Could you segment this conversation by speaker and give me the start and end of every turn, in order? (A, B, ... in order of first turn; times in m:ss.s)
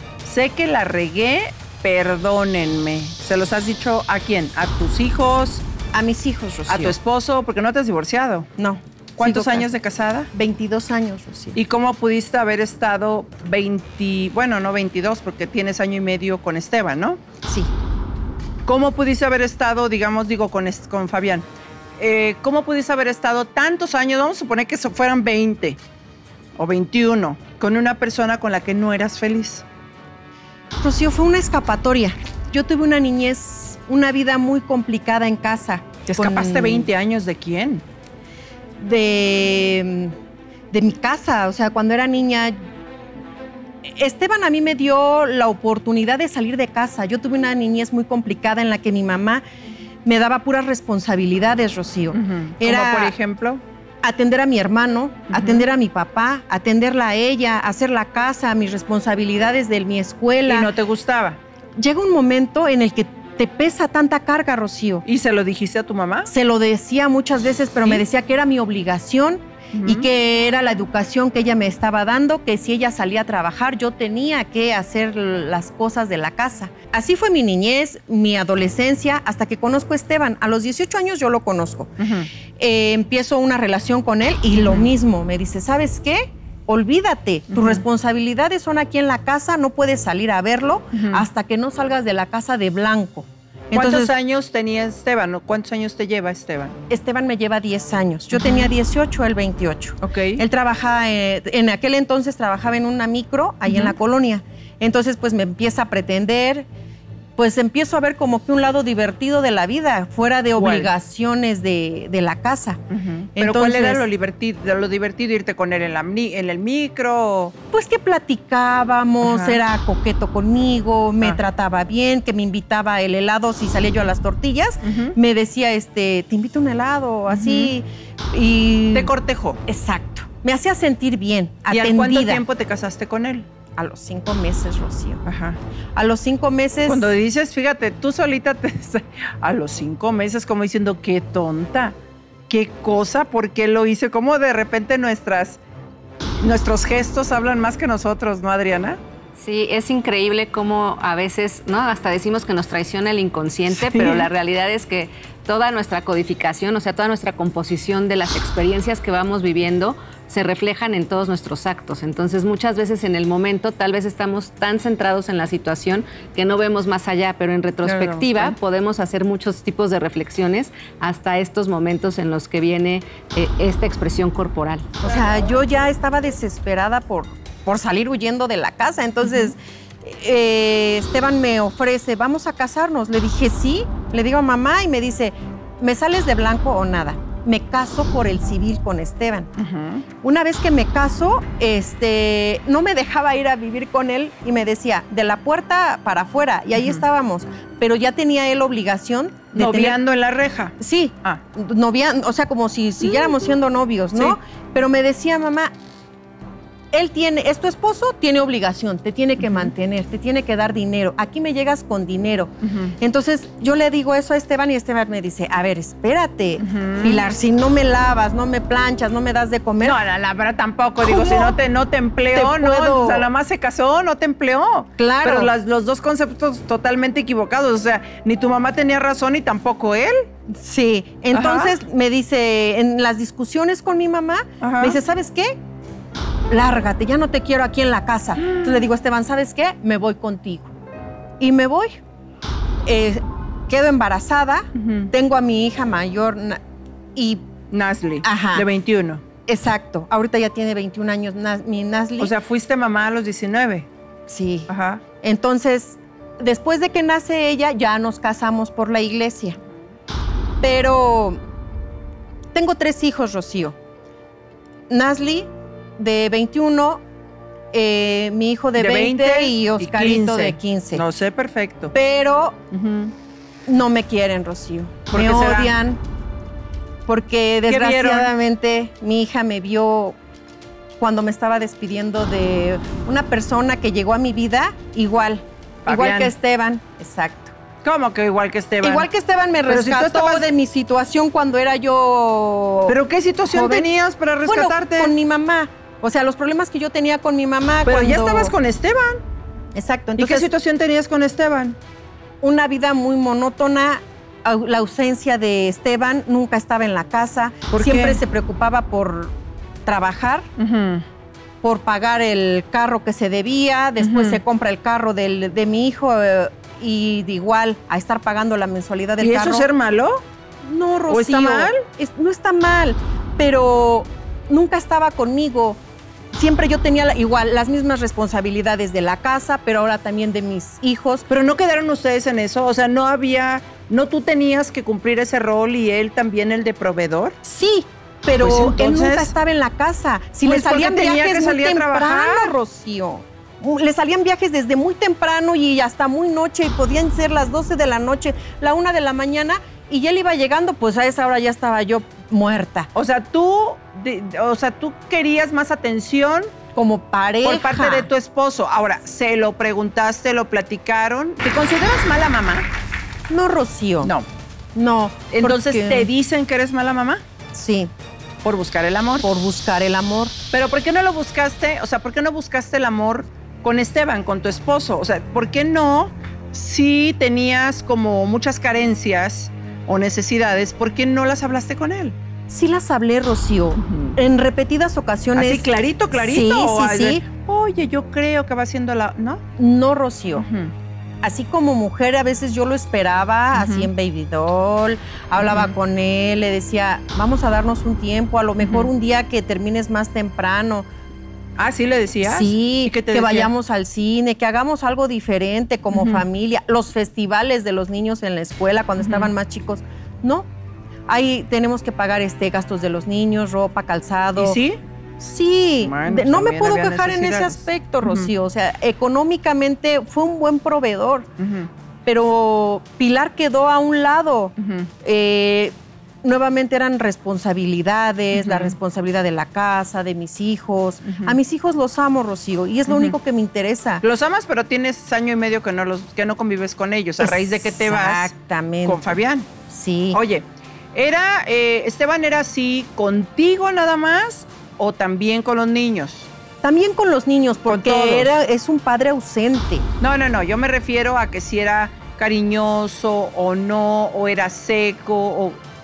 0:00.2-0:05.6 A
0:05.9-0:07.0 B
0:06.7-0:08.5 A
0:08.6-0:09.7 B
0:09.2-0:10.3 A
0:10.3-0:11.6 B
0:11.5-0:17.2 A
0:17.4-0:17.7 B
0:18.6-0:21.5 A
0:22.0-0:25.8 A
0:26.6-0:29.6 A
0:30.8-0:36.9 B
0:36.1-0:37.8 A
0:38.8-0:40.1 B
0:40.7-0:42.6 B
0:43.8-0:49.4 B
0:50.0-0:53.2 B
0:52.1-0:53.6 A
0:54.0-1:00.7 B
0:55.3-0:55.6 A
1:00.5-1:01.4 A
1:01.8-1:05.0 B
1:05.0-1:06.3 A
1:06.2-1:34.1 B
1:09.7-1:10.0 A
1:22.0-1:22.3 A
1:24.6-1:24.9 A
1:27.5-1:27.8 A
1:31.0-1:31.2 A
1:33.7-1:36.7 A
1:36.9-1:46.7 B
1:38.3-1:38.7 A
1:40.0-1:40.4 A
1:43.7-1:43.9 A
1:47.4-1:52.8 B
1:50.6-1:50.9 A
1:52.9-1:57.5 A
1:53.4-1:54.1 B
1:57.7-2:09.1 B
1:59.2-1:59.6 A
2:04.8-2:05.2 A
2:07.3-2:07.7 A
2:08.9-2:09.6 A
2:09.7-2:12.4 B
2:11.7-2:13.5 A
2:13.8-2:15.2 B
2:15.2-2:15.6 A
2:16.0-2:17.2 B
2:16.9-2:22.0 A
2:22.5-2:25.6 A
2:26.4-2:29.0 A
2:29.4-2:54.9 C
2:33.8-2:34.3 A
2:47.8-2:48.6 A
2:55.0-3:09.5 B
2:59.2-2:59.5 A
3:09.6-3:10.0 A
3:10.2-3:20.0 B
3:16.8-3:17.0 A
3:19.5-3:21.4 A
3:20.8-3:25.7 B
3:26.9-3:40.0 B
3:29.4-3:29.7 A
3:32.6-3:32.9 A
3:36.6-3:37.2 A
3:39.8-3:50.3 A
3:41.0-3:41.6 B
3:42.3-3:43.3 B
3:45.0-3:45.5 B
3:50.5-3:55.6 B
3:51.3-3:51.8 A
3:54.6-3:55.0 A
3:56.5-4:00.7 B
3:58.4-3:58.8 A
4:01.4-4:02.0 B
4:02.8-4:06.6 B
4:04.8-4:05.1 A
4:07.1-4:07.4 B
4:07.7-4:09.2 A
4:08.2-4:08.7 B
4:09.5-4:12.3 B
4:12.2-4:13.9 A
4:14.3-4:19.6 B
4:14.7-4:15.0 A
4:20.6-4:21.4 B
4:22.5-4:23.8 B
4:24.9-4:27.0 B
4:27.7-4:31.0 B
4:28.8-4:31.9 A
4:31.9-4:32.6 B
4:32.7-4:33.1 A
4:33.7-4:36.0 B
4:35.1-4:35.7 A
4:37.0-4:40.2 B
4:37.7-4:38.3 A
4:41.0-4:47.5 B
4:45.8-4:46.3 A
4:47.8-4:49.1 A
4:48.8-4:53.9 B
4:49.7-4:50.4 A
4:52.9-4:55.1 A
4:54.4-4:58.5 B
4:57.9-4:59.2 A
4:59.7-5:00.5 B
5:00.2-5:01.8 A
5:02.4-5:09.3 B
5:07.7-5:08.2 A
5:09.8-5:10.5 B
5:10.6-5:11.0 A
5:11.6-5:19.7 B
5:14.0-5:14.4 A
5:19.2-5:20.2 A
5:20.6-5:25.8 B
5:21.1-5:21.8 A
5:26.3-5:31.3 B
5:31.3-5:37.4 A
5:37.4-5:52.9 B
5:38.4-5:39.3 A
5:40.4-5:42.5 A
5:52.9-5:56.5 A
5:56.7-5:58.1 B
5:57.4-6:02.7 A
6:03.3-6:04.1 B
6:04.7-6:06.1 B
6:05.3-6:07.2 A
6:07.5-6:07.9 B
6:08.4-6:09.3 A
6:09.2-6:10.4 B
6:10.5-6:22.2 A
6:22.5-6:27.2 B
6:23.8-6:24.1 A
6:25.4-6:29.4 A
6:29.6-6:30.5 B
6:30.4-6:30.7 A
6:31.2-6:40.9 B
6:33.6-6:33.9 A
6:35.4-6:35.7 A
6:38.6-6:38.9 A
6:41.6-6:43.5 A
6:42.2-6:50.5 B
6:45.9-6:46.2 A
6:49.0-6:49.3 A
6:51.1-6:54.6 B
6:54.4-6:54.8 A
6:55.2-7:01.3 B
6:55.8-6:58.3 A
7:01.4-7:01.7 A
7:02.0-7:14.0 B
7:04.6-7:04.9 A
7:08.3-7:08.7 A
7:11.1-7:11.4 A
7:12.9-7:13.1 A
7:14.0-7:18.3 A
7:17.2-7:20.2 B
7:18.8-7:19.5 A
7:20.1-7:26.3 A
7:26.6-7:29.8 B
7:27.7-7:28.3 A
7:30.0-7:35.6 A